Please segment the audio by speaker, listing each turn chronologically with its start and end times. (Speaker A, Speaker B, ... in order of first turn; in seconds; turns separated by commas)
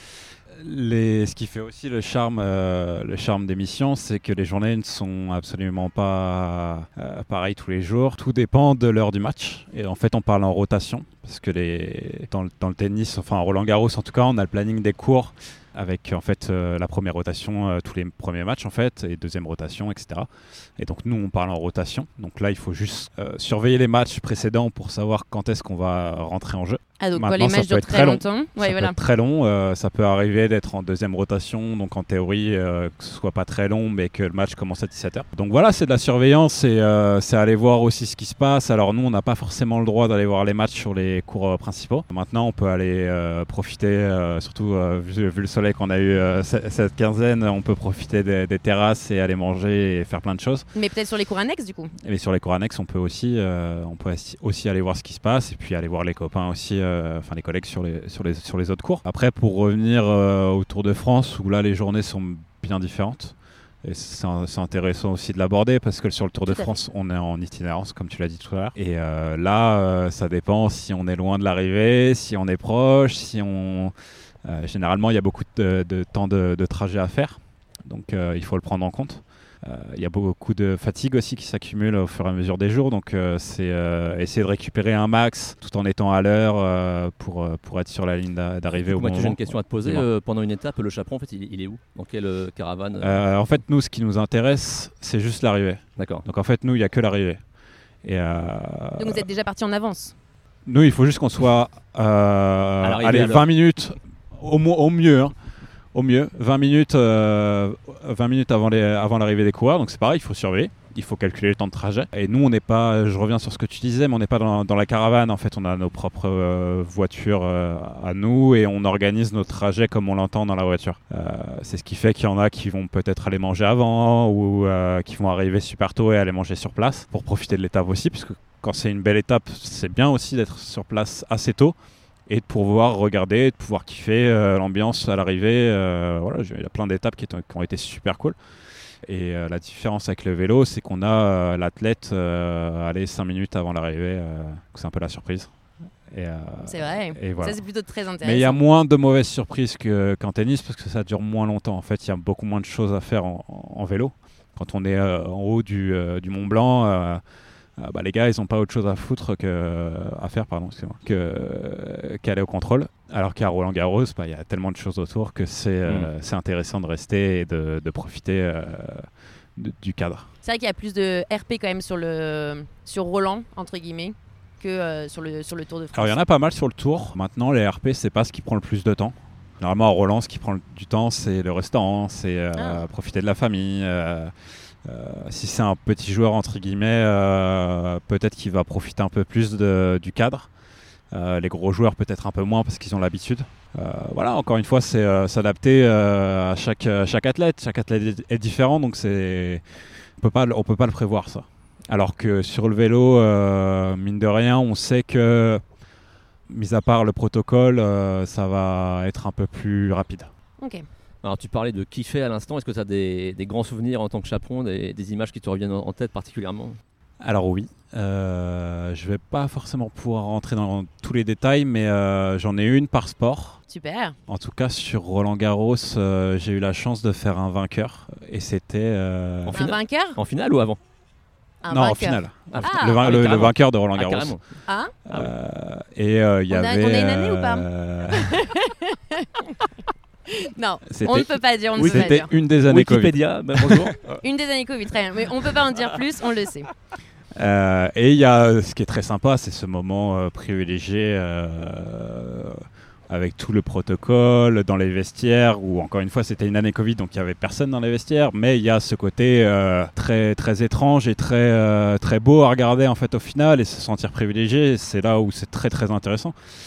Speaker A: 0.6-50.7, Speaker B: 27.0-29.0, Speaker B: 50.7-51.9, Speaker A: 52.0-73.9, Speaker B: 66.5-66.7, Speaker A: 74.4-90.1, Speaker C: 88.7-93.2, Speaker A: 93.0-97.4, Speaker C: 96.0-96.2, Speaker A: 98.0-99.2, Speaker B: 99.0-100.2, Speaker A: 100.7-105.4, Speaker C: 102.8-103.5, Speaker A: 105.9-131.8, Speaker A: 132.3-138.3, Speaker A: 139.0-145.5, Speaker A: 146.1-147.6, Speaker B: 146.7-148.6, Speaker A: 148.2-157.2, Speaker A: 157.8-170.3, Speaker B: 170.4-176.2, Speaker A: 175.9-184.3, Speaker B: 182.6-182.8, Speaker A: 184.8-190.5, Speaker A: 191.1-199.6, Speaker A: 200.2-205.6, Speaker A: 206.5-210.3, Speaker B: 210.6-210.9, Speaker C: 211.2-216.8, Speaker A: 217.2-223.6, Speaker B: 223.7-224.2, Speaker A: 224.3-229.6, Speaker C: 229.5-230.8, Speaker B: 229.5-230.2, Speaker B: 231.6-233.1, Speaker A: 231.7-234.3, Speaker C: 232.5-235.3, Speaker B: 234.7-234.9, Speaker A: 235.1-238.4, Speaker B: 236.5-239.7, Speaker B: 240.3-242.3, Speaker A: 240.9-244.2, Speaker C: 241.8-244.0, Speaker B: 244.2-246.7, Speaker A: 247.4-266.4